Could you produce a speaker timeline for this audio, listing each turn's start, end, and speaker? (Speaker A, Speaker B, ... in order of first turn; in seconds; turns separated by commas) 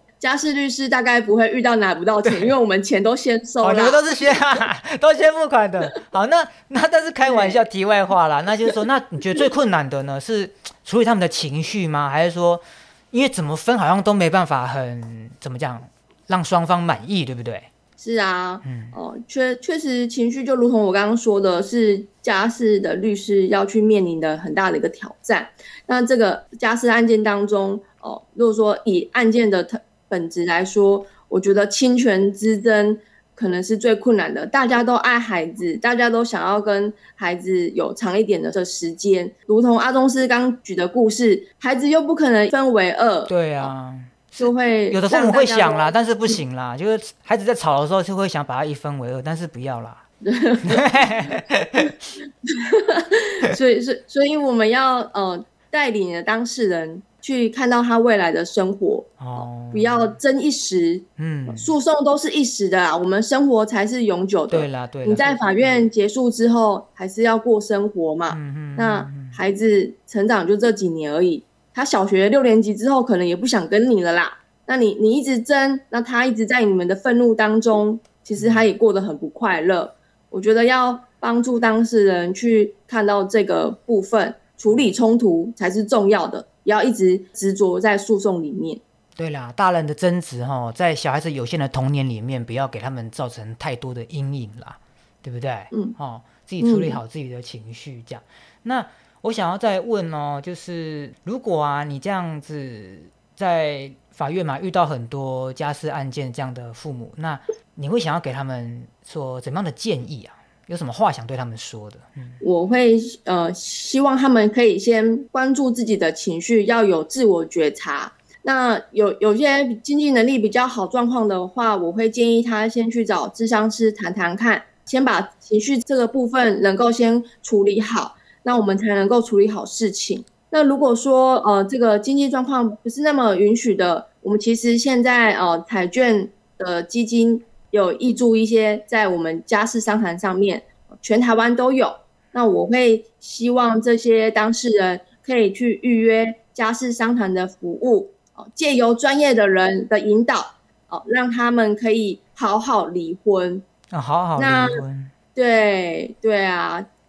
Speaker A: 0.2-4.0, Speaker B: 2.2-2.5, Speaker B: 3.6-17.7, Speaker A: 7.2-7.6, Speaker A: 18.0-43.7, Speaker B: 18.6-18.9, Speaker B: 43.3-50.0, Speaker A: 44.4-45.9, Speaker A: 50.2-50.9, Speaker B: 50.7-51.9, Speaker A: 52.5-88.8, Speaker B: 59.2-60.1, Speaker B: 61.2-61.7, Speaker B: 64.5-65.9, Speaker B: 68.3-69.3, Speaker B: 78.3-78.7, Speaker B: 89.2-112.4, Speaker A: 95.7-96.0, Speaker A: 96.6-97.0, Speaker A: 112.4-153.6, Speaker B: 153.9-155.1, Speaker A: 154.4-154.8, Speaker A: 155.3-156.8